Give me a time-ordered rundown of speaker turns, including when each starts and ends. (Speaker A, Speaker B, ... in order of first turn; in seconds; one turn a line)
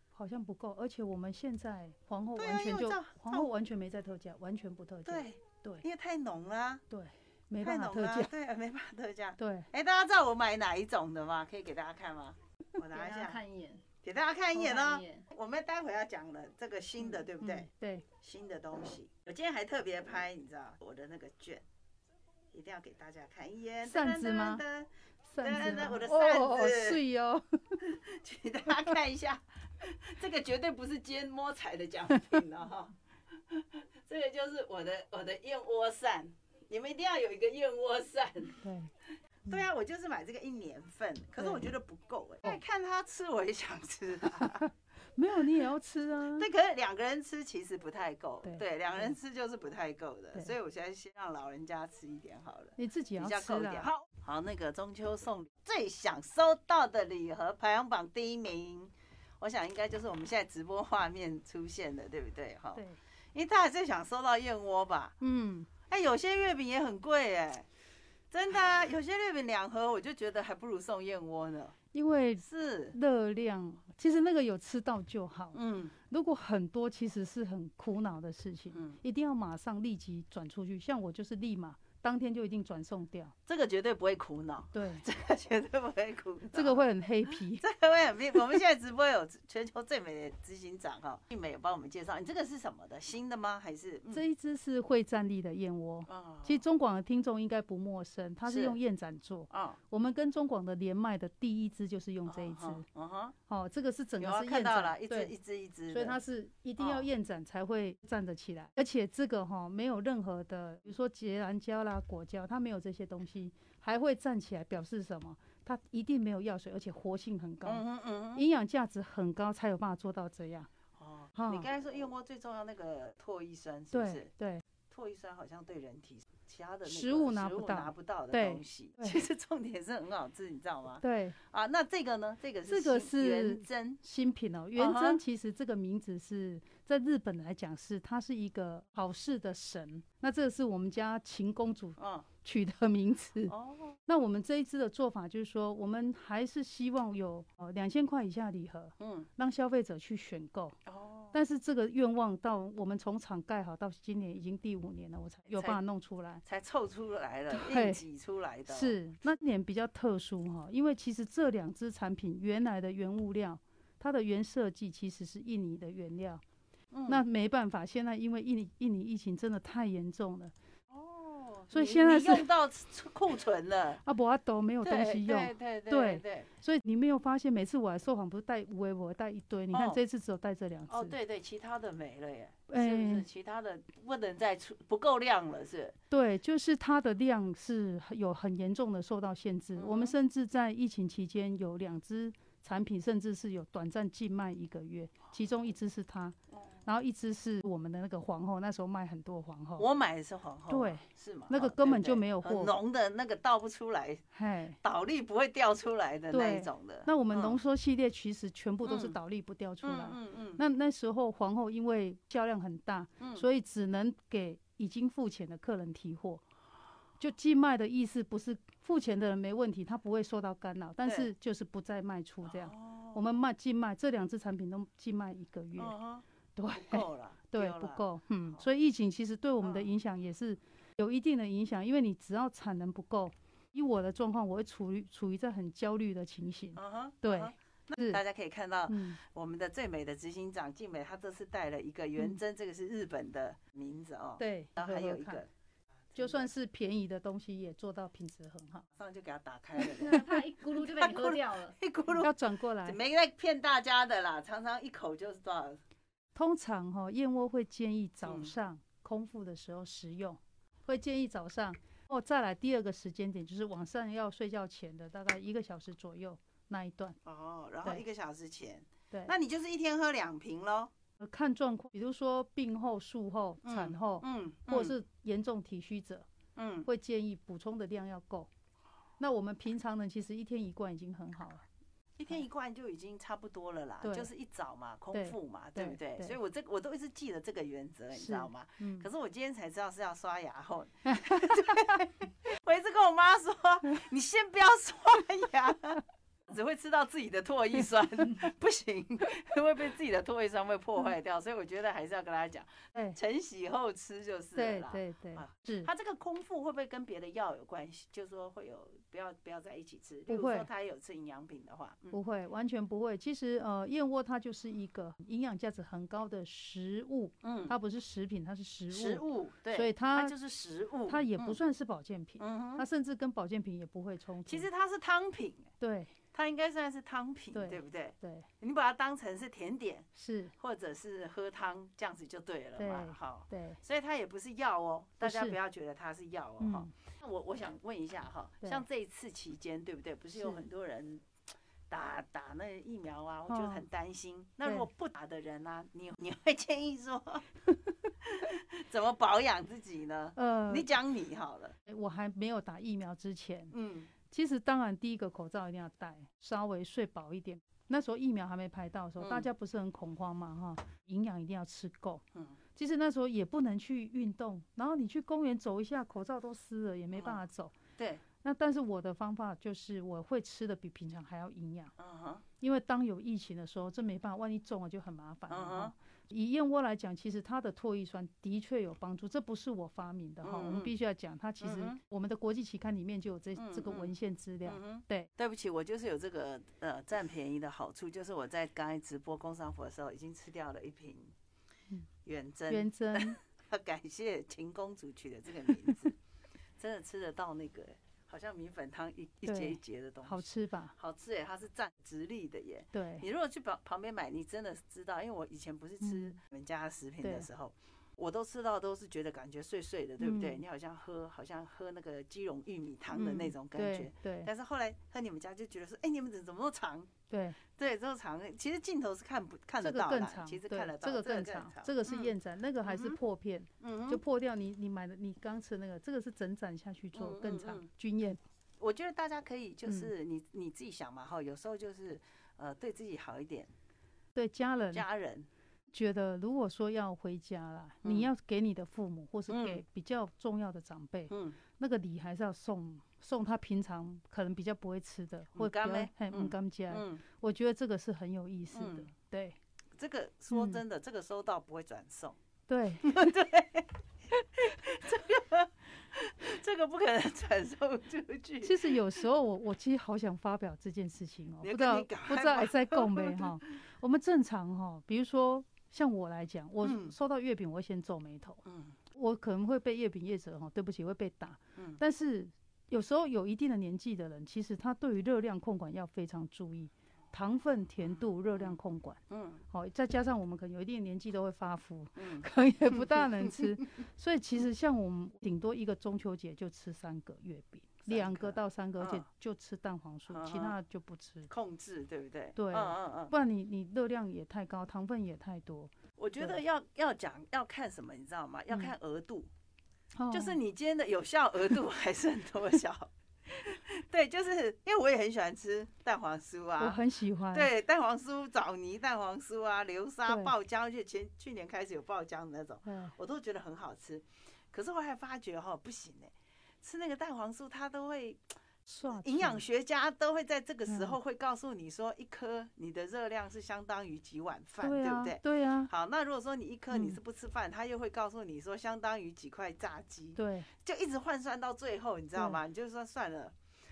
Speaker A: 0.1-5.8
Speaker B: 2.4-3.5
Speaker B: 5.0-6.8
Speaker A: 6.9-8.3
Speaker B: 7.6-13.4
Speaker A: 9.4-9.7
Speaker C: 12.9-13.8
Speaker B: 14.0-17.7
Speaker C: 14.5-15.2
Speaker A: 17.4-18.1
Speaker B: 18.2-21.6
Speaker B: 22.5-27.0
Speaker A: 23.8-24.6
Speaker A: 25.3-27.9
Speaker B: 27.8-32.9
Speaker B: 33.5-38.6
Speaker A: 38.6-38.9
Speaker B: 39.5-44.7
Speaker A: 41.4-41.7
Speaker A: 44.3-46.5
Speaker B: 46.3-65.2
Speaker A: 48.4-49.1
Speaker A: 52.8-53.9
Speaker A: 65.2-65.7
Speaker B: 65.9-67.7
Speaker B: 68.3-71.7
Speaker A: 71.9-83.3
Speaker B: 72.4-73.0
Speaker B: 75.5-75.9
Speaker B: 78.7-79.0
Speaker B: 83.5-86.8
Speaker A: 84.7-85.0
Speaker A: 86.5-87.6
Speaker B: 87.5-94.2
Speaker A: 94.1-102.8
Speaker B: 96.0-96.6
Speaker B: 98.5-98.8
Speaker B: 99.5-99.8
Speaker B: 102.2-103.3
Speaker A: 103.5-105.3
Speaker B: 104.2-106.2
Speaker A: 105.9-120.7
Speaker B: 106.8-107.1
Speaker B: 117.6-118.4
Speaker B: 121.0-124.3
Speaker A: 121.3-121.7
Speaker A: 123.9-124.6
Speaker B: 124.9-134.0
Speaker A: 126.8-129.2
Speaker A: 131.0-131.3
Speaker A: 132.7-143.5
Speaker B: 134.8-135.2
Speaker B: 142.0-142.3
Speaker B: 143.5-144.0
Speaker A: 144.1-150.8
Speaker B: 149.0-149.3
Speaker B: 150.8-151.3
Speaker A: 151.3-156.4
Speaker B: 155.5-155.8
Speaker B: 156.4-159.0
Speaker A: 157.5-158.0
Speaker A: 158.7-166.4
Speaker B: 166.9-167.2
Speaker A: 167.1-170.5
Speaker B: 170.9-174.0
Speaker A: 171.7-172.5
Speaker A: 174.0-181.1
Speaker B: 174.8-176.5
Speaker B: 179.7-180.0
Speaker B: 180.9-185.9
Speaker A: 182.7-183.3
Speaker A: 186.1-199.8
Speaker B: 189.8-190.1
Speaker B: 196.5-196.8
Speaker B: 199.8-204.2
Speaker A: 200.7-202.7
Speaker A: 204.3-204.8
Speaker B: 204.8-207.6
Speaker A: 206.3-216.4
Speaker B: 208.8-209.2
Speaker B: 209.8-210.6
Speaker B: 213.2-213.4
Speaker A: 217.2-225.9
Speaker B: 222.4-223.3
Speaker B: 225.8-228.6
Speaker A: 226.6-238.2
Speaker B: 229.6-229.9
Speaker B: 236.7-245.5
Speaker A: 238.9-239.2
Speaker A: 244.4-245.4
Speaker B: 246.1-246.5
Speaker A: 246.2-248.8
Speaker B: 248.9-255.8
Speaker C: 250.0-251.8
Speaker A: 252.1-253.0
Speaker A: 256.3-267.2
Speaker B: 258.2-258.5
Speaker B: 267.2-270.9
Speaker A: 271.2-276.3
Speaker B: 273.6-274.9
Speaker B: 276.6-276.9
Speaker A: 276.8-278.5
Speaker A: 279.2-281.6
Speaker B: 282.2-312.2
Speaker A: 284.0-284.3
Speaker A: 285.1-286.4
Speaker A: 288.1-289.1
Speaker A: 291.2-292.0
Speaker A: 304.5-305.9
Speaker A: 310.3-310.7
Speaker A: 312.1-320.3
Speaker B: 317.4-317.7
Speaker B: 318.9-321.6
Speaker A: 321.1-324.7
Speaker B: 322.4-322.8
Speaker B: 324.4-325.7
Speaker A: 325.8-326.1
Speaker B: 326.3-341.3
Speaker A: 327.5-328.5
Speaker A: 330.1-330.5
Speaker A: 332.8-333.8
Speaker A: 335.2-335.6
Speaker A: 336.6-336.9
Speaker A: 340.3-340.6
Speaker B: 341.9-347.5
Speaker A: 343.5-343.9
Speaker B: 348.2-351.7
Speaker A: 350.4-350.9
Speaker A: 351.9-353.7
Speaker B: 353.7-354.1
Speaker A: 354.3-362.2
Speaker B: 359.2-359.5
Speaker A: 362.7-367.7
Speaker B: 367.1-367.4
Speaker B: 368.0-368.2
Speaker A: 368.4-371.9
Speaker B: 372.0-372.4
Speaker A: 372.6-385.3
Speaker B: 375.5-375.9
Speaker B: 380.4-380.9
Speaker B: 381.6-382.0
Speaker B: 383.6-384.1
Speaker B: 384.6-391.3
Speaker B: 392.2-396.1
Speaker A: 392.7-393.4
Speaker B: 396.8-422.3
Speaker A: 399.4-400.9
Speaker A: 402.9-403.2
Speaker A: 406.0-406.4
Speaker A: 407.2-407.5
Speaker A: 410.2-410.6
Speaker A: 413.1-414.5
Speaker A: 417.3-417.6
Speaker A: 419.8-428.4
Speaker B: 422.8-423.2
Speaker B: 423.8-424.2
Speaker B: 427.1-427.9
Speaker B: 428.8-433.7
Speaker A: 434.3-435.0
Speaker B: 434.9-435.5
Speaker A: 435.9-449.6
Speaker B: 438.0-438.3
Speaker B: 439.5-439.8
Speaker B: 441.3-441.6
Speaker B: 445.5-447.2
Speaker B: 448.7-449.1
Speaker B: 450.0-452.4
Speaker A: 450.5-450.8
Speaker A: 452.7-453.2
Speaker B: 453.0-454.0
Speaker B: 454.6-459.1
Speaker A: 458.6-491.5
Speaker B: 461.6-463.7
Speaker B: 466.8-467.1
Speaker B: 468.6-468.9
Speaker B: 478.5-478.8
Speaker B: 479.3-479.6
Speaker B: 482.2-482.5
Speaker B: 483.1-483.6
Speaker B: 488.1-489.2
Speaker B: 490.3-490.8
Speaker B: 491.5-493.3
Speaker A: 492.6-496.6
Speaker B: 496.2-499.5
Speaker A: 500.1-500.6
Speaker B: 500.3-503.1
Speaker B: 503.6-507.0
Speaker A: 506.8-507.7
Speaker B: 507.5-518.4
Speaker A: 510.3-510.5
Speaker A: 512.9-513.1
Speaker A: 518.9-519.6
Speaker B: 519.0-533.5
Speaker A: 520.9-521.1
Speaker A: 524.8-525.9
Speaker A: 526.9-527.2
Speaker A: 530.4-530.7
Speaker A: 532.4-532.6